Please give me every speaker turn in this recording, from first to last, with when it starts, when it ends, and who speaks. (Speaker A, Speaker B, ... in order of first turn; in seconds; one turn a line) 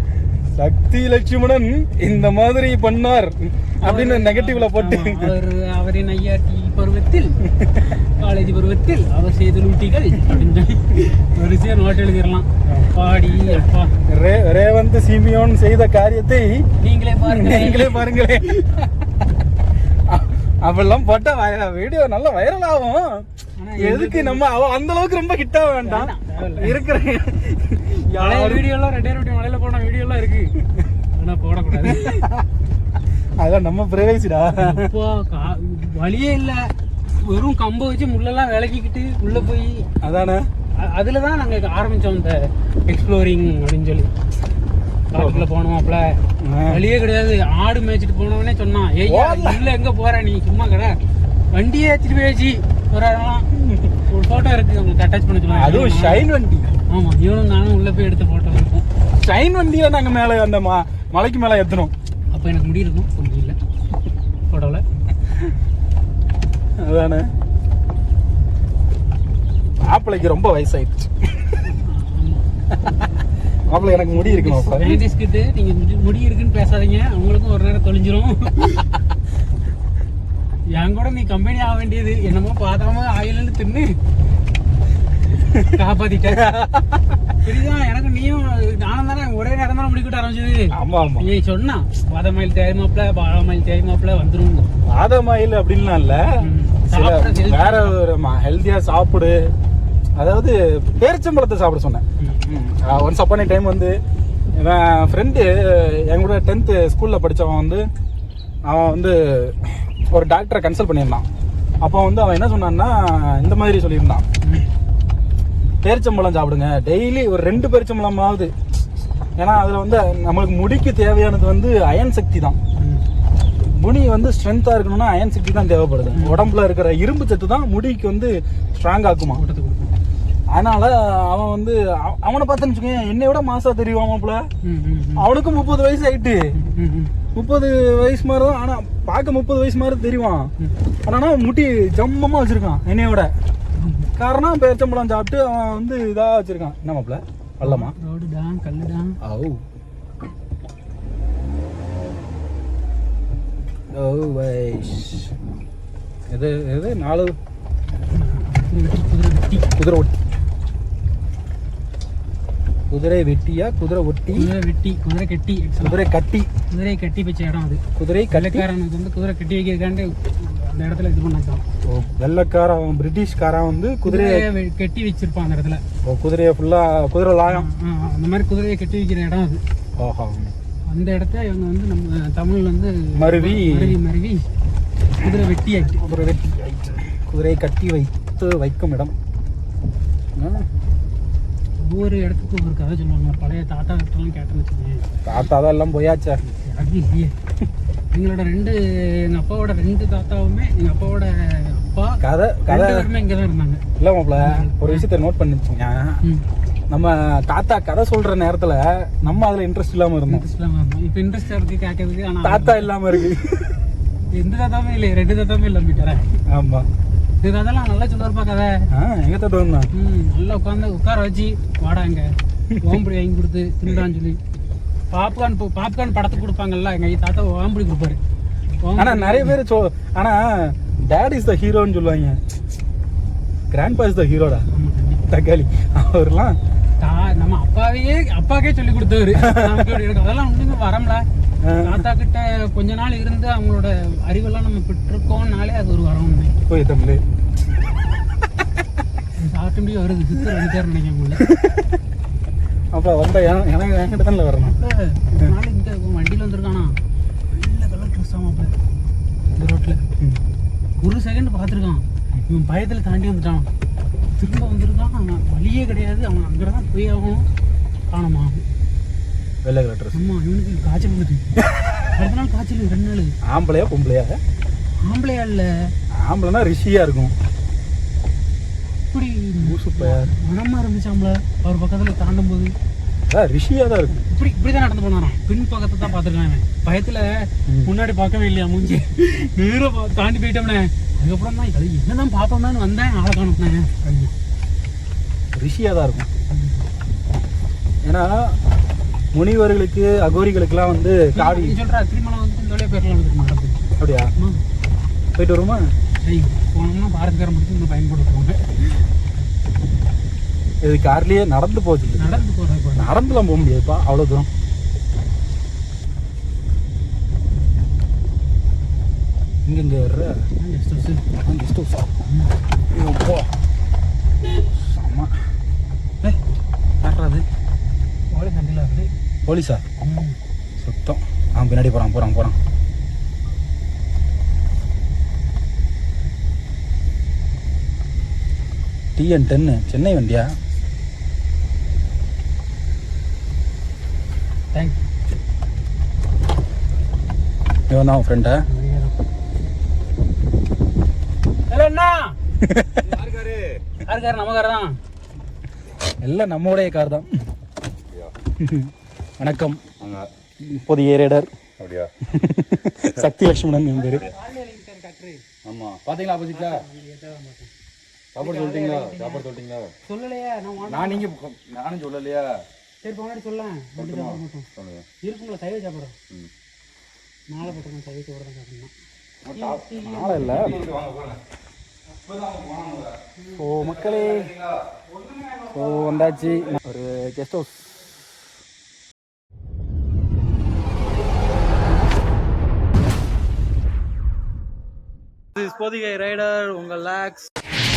Speaker A: 0.5-5.4
Speaker B: 3.8-13.9
Speaker A: 7.5-7.9
Speaker A: 12.7-16.6
Speaker B: 16.8-18.1
Speaker A: 17.2-19.1
Speaker A: 20.1-23.3
Speaker B: 23.6-24.4
Speaker A: 23.8-28.7
Speaker B: 25.8-26.8
Speaker B: 28.1-30.6
Speaker B: 31.1-32.3
Speaker A: 31.7-32.5
Speaker A: 33.4-34.9
Speaker B: 34.5-39.9
Speaker A: 40.0-40.5
Speaker B: 40.8-44.1
Speaker B: 45.1-46.1
Speaker A: 45.1-45.5
Speaker A: 46.4-46.8
Speaker B: 46.7-51.0
Speaker A: 49.0-49.7
Speaker B: 51.5-53.5
Speaker A: 53.5-54.0
Speaker B: 54.1-56.3
Speaker A: 55.5-56.7
Speaker B: 56.9-58.9
Speaker A: 59.2-61.9
Speaker B: 62.3-63.6
Speaker B: 64.5-64.8
Speaker A: 66.8-67.3
Speaker A: 69.8-71.6
Speaker B: 71.7-72.5
Speaker A: 72.7-73.1
Speaker A: 73.7-75.0
Speaker B: 73.7-79.0
Speaker B: 80.7-84.0
Speaker A: 85.4-87.4
Speaker B: 85.6-86.5
Speaker B: 87.4-94.7
Speaker A: 90.7-91.3
Speaker A: 94.8-99.5
Speaker B: 96.4-98.0
Speaker A: 100.2-104.0
Speaker A: 104.6-107.9
Speaker A: 108.7-111.3
Speaker A: 111.8-114.2
Speaker A: 115.8-118.5
Speaker A: 119.4-122.6
Speaker B: 122.8-123.0
Speaker A: 123.8-129.4
Speaker B: 126.1-126.5
Speaker B: 129.3-129.9
Speaker A: 130.5-134.5
Speaker B: 134.6-135.3
Speaker A: 135.2-136.4
Speaker B: 136.6-137.2
Speaker A: 137.3-140.5
Speaker A: 141.1-143.3
Speaker B: 143.8-144.1
Speaker A: 144.2-147.9
Speaker B: 147.6-149.2
Speaker A: 149.2-149.6
Speaker A: 153.9-155.3
Speaker A: 156.3-157.4
Speaker B: 158.1-159.7
Speaker A: 159.7-160.2
Speaker A: 162.9-164.5
Speaker B: 164.3-166.0
Speaker A: 165.8-166.5
Speaker B: 166.7-171.6
Speaker A: 168.0-168.7
Speaker A: 171.8-174.5
Speaker B: 174.1-175.8
Speaker A: 176.0-177.7
Speaker B: 177.5-179.6
Speaker A: 180.0-180.5
Speaker B: 180.9-184.5
Speaker A: 183.2-184.0
Speaker B: 185.2-186.0
Speaker A: 185.2-189.1
Speaker A: 190.4-190.7
Speaker B: 191.8-195.1
Speaker A: 195.2-196.4
Speaker B: 196.5-197.3
Speaker B: 198.1-205.1
Speaker A: 202.2-203.1
Speaker A: 204.0-206.2
Speaker A: 206.9-210.4
Speaker B: 210.3-212.9
Speaker A: 212.4-213.8
Speaker B: 214.3-216.3
Speaker A: 216.5-216.9
Speaker B: 217.4-218.9
Speaker A: 218.9-219.9
Speaker B: 219.9-224.4
Speaker A: 222.7-223.0
Speaker B: 225.1-228.2
Speaker B: 228.8-229.6
Speaker A: 229.0-232.4
Speaker A: 233.7-234.7
Speaker B: 234.7-235.2
Speaker A: 235.3-236.6
Speaker B: 237.0-241.2
Speaker A: 239.3-239.9
Speaker A: 241.6-242.1
Speaker B: 241.8-246.5
Speaker A: 246.7-247.2
Speaker B: 249.4-251.5
Speaker A: 251.4-252.0
Speaker A: 252.9-254.8
Speaker B: 254.8-257.0
Speaker B: 257.5-258.7
Speaker B: 259.6-260.0
Speaker B: 261.0-263.7
Speaker B: 264.4-267.5
Speaker B: 268.1-268.6
Speaker A: 269.6-270.2
Speaker B: 270.1-271.6
Speaker B: 272.1-273.4
Speaker A: 273.4-274.4
Speaker B: 275.0-275.9
Speaker A: 276.1-277.3
Speaker B: 279.1-282.7
Speaker A: 279.6-280.3
Speaker A: 283.3-284.2
Speaker B: 284.2-294.3
Speaker A: 287.7-287.9
Speaker A: 295.6-296.3
Speaker B: 296.5-296.8
Speaker A: 298.1-298.6
Speaker A: 299.3-301.8
Speaker B: 301.4-304.6
Speaker A: 304.0-304.3
Speaker A: 305.4-305.9
Speaker B: 306.2-308.9
Speaker A: 310.8-312.4
Speaker B: 312.1-313.1
Speaker A: 313.0-314.5
Speaker A: 319.7-320.3
Speaker B: 320.6-321.3
Speaker A: 321.4-322.3
Speaker A: 322.9-323.5
Speaker A: 324.7-325.3
Speaker A: 327.0-327.5
Speaker B: 328.3-329.1
Speaker A: 329.5-329.8
Speaker B: 330.0-330.4
Speaker A: 330.8-332.6
Speaker A: 339.2-340.6
Speaker B: 344.7-345.0
Speaker A: 347.9-348.6
Speaker B: 348.7-349.1
Speaker B: 351.7-352.4
Speaker A: 352.6-353.1
Speaker C: 353.0-353.8
Speaker B: 354.1-355.0
Speaker A: 356.2-357.3
Speaker A: 358.6-359.9
Speaker C: 360.0-360.3
Speaker A: 360.6-361.5
Speaker C: 361.8-362.2
Speaker A: 362.2-364.3
Speaker B: 363.9-365.4
Speaker C: 365.6-366.9
Speaker B: 366.5-367.7
Speaker C: 368.3-369.9
Speaker B: 368.4-369.5
Speaker B: 370.1-371.3
Speaker C: 370.8-372.6
Speaker B: 373.0-374.7
Speaker C: 374.0-375.1
Speaker B: 375.2-376.2
Speaker B: 377.5-378.9
Speaker C: 379.4-379.9
Speaker B: 379.5-380.8
Speaker A: 379.9-380.9
Speaker C: 380.6-381.4
Speaker C: 382.3-383.1
Speaker B: 383.4-383.9
Speaker A: 383.6-384.6
Speaker C: 384.5-384.8
Speaker B: 385.1-385.7
Speaker A: 385.7-387.9
Speaker A: 395.6-397.4
Speaker C: 395.7-397.4